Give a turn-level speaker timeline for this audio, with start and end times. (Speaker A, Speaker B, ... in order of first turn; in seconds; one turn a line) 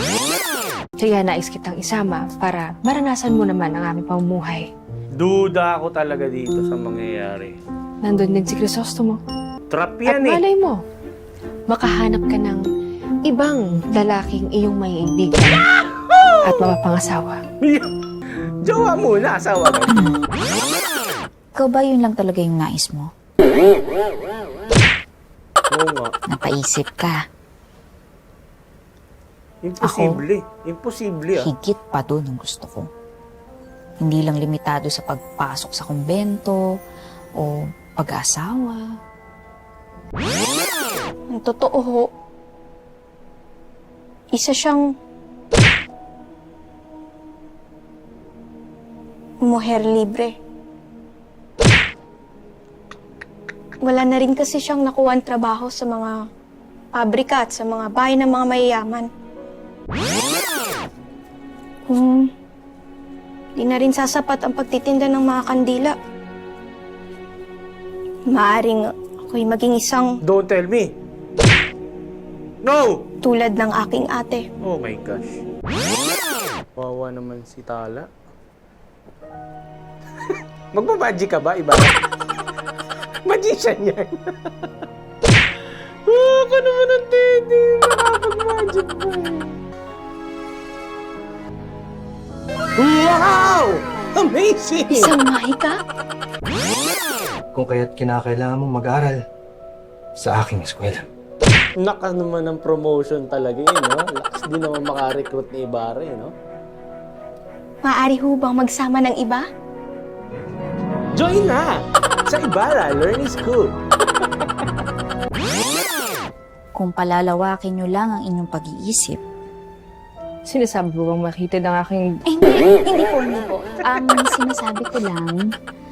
Speaker A: 1.0-4.7
Speaker B: 5.2-7.6
Speaker A: 8.0-9.2
Speaker B: 9.7-10.4
Speaker A: 10.1-10.8
Speaker A: 11.7-12.6
Speaker A: 13.3-15.6
Speaker A: 16.4-17.4
Speaker B: 17.6-17.9
Speaker B: 18.6-19.9
Speaker C: 21.6-23.1
Speaker B: 25.7-26.1
Speaker C: 26.3-27.2
Speaker B: 29.6-31.5
Speaker C: 29.8-30.2
Speaker C: 31.4-32.9
Speaker C: 34.0-36.6
Speaker C: 37.4-38.8
Speaker D: 41.3-42.1
Speaker D: 44.4-44.8
Speaker D: 49.5-50.4
Speaker D: 53.8-56.1
Speaker D: 56.9-59.1
Speaker D: 61.9-62.3
Speaker D: 63.5-65.9
Speaker D: 68.3-70.1
Speaker B: 70.2-70.9
Speaker B: 72.6-73.0
Speaker D: 73.2-74.4
Speaker B: 74.6-75.4
Speaker B: 76.8-78.1
Speaker B: 80.7-82.0
Speaker B: 83.2-84.1
Speaker B: 86.1-89.6
Speaker B: 92.8-95.1
Speaker A: 94.9-95.8
Speaker E: 97.5-99.2
Speaker E: 100.2-101.0
Speaker B: 101.8-106.3
Speaker D: 107.8-109.4
Speaker B: 111.2-111.7
Speaker B: 112.3-113.7
Speaker C: 116.8-119.2
Speaker A: 120.5-122.2
Speaker C: 122.3-123.1
Speaker C: 123.8-125.4